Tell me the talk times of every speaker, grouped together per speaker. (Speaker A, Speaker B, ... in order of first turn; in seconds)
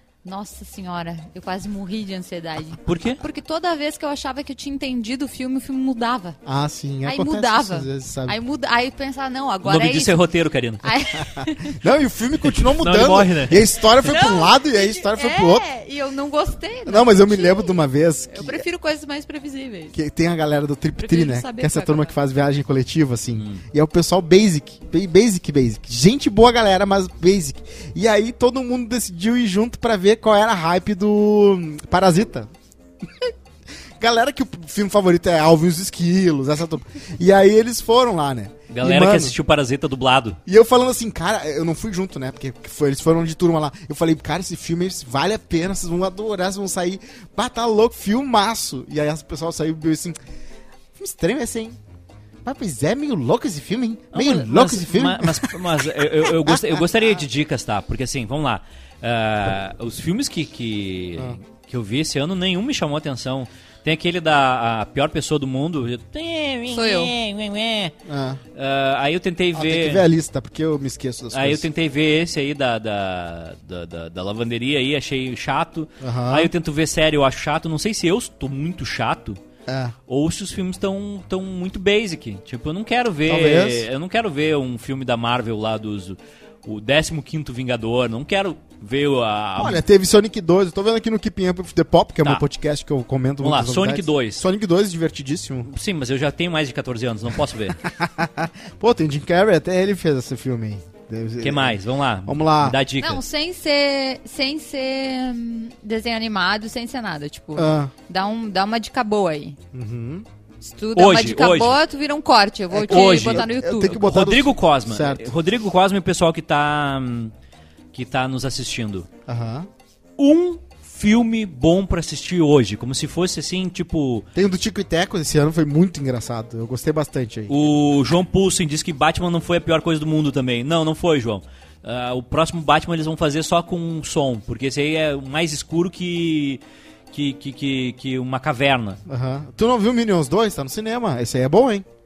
Speaker A: 0.2-6.4, 7.0-10.2, 10.8-11.8, 14.0-19.9, 21.0-22.1, 66.7-67.1, 103.0-109.6, 110.6-114.0
Speaker B: 2.8-3.2, 9.6-10.8, 12.4-13.7, 23.4-23.6, 38.7-40.4, 54.1-67.9, 68.5-70.0, 71.3-79.4, 80.1-89.8, 93.4-94.4, 95.6-97.8, 101.4-103.2, 111.0-111.8, 112.9-117.3, 117.9-119.1, 120.2-124.3, 127.5-139.0
Speaker C: 6.5-8.4, 11.2-15.7, 16.9-18.6, 19.9-32.5, 33.0-33.3, 34.0-39.3, 40.5-50.2, 51.0-51.8, 52.4-57.1, 68.0-68.4, 69.5-71.7, 76.0-76.5, 79.7-79.9, 83.3-83.9, 89.6-95.7, 97.8-102.8, 107.6-107.9, 109.7-110.2, 112.7-115.3, 119.3-119.7, 124.3-127.5, 139.1-141.8